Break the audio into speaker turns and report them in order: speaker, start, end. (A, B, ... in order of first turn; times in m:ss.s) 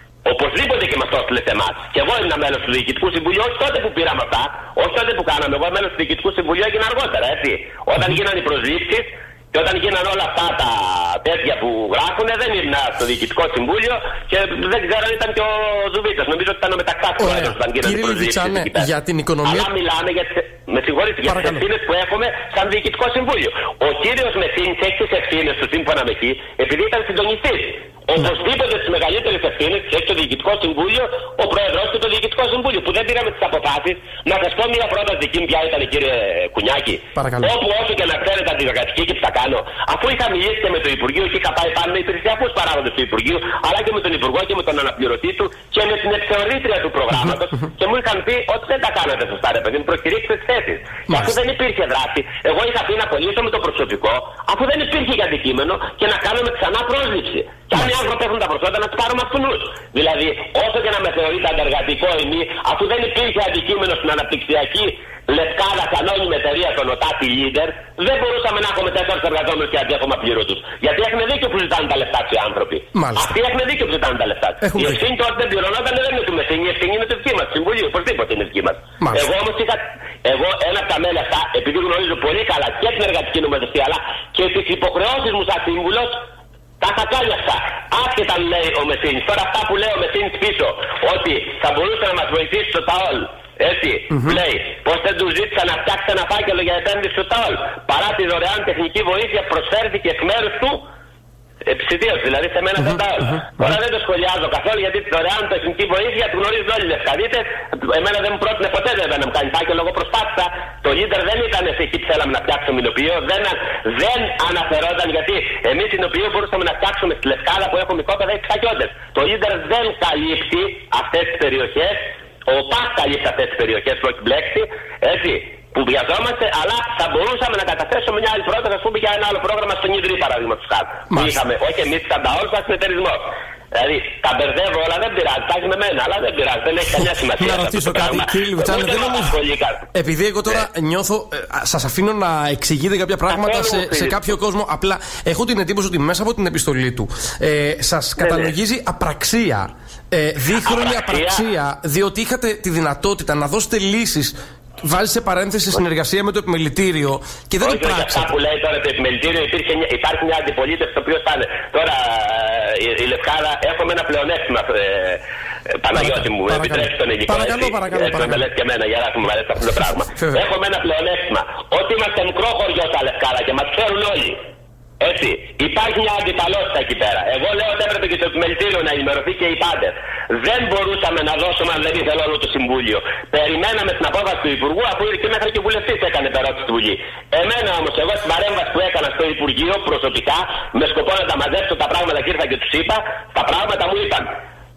0:00.2-0:18.9 A
0:17.2-0:19.7 B
0:19.4-1:26.2 A
0:21.3-0:21.6 B
0:37.1-0:37.5 B
0:51.1-0:51.3 B
1:12.9-1:13.3 B
1:14.6-1:15.0 B
1:19.0-1:19.2 B
1:26.8-1:40.8 A
1:34.1-1:34.4 B
1:41.6-2:19.9 A
2:11.1-2:11.4 B
2:17.4-2:19.4 B
2:19.9-2:38.3 B
2:23.3-2:24.4 A
2:28.2-2:28.5 A
2:30.6-2:31.4 A
2:37.6-2:54.4 A
2:45.9-2:48.4 B
2:55.0-3:14.3 A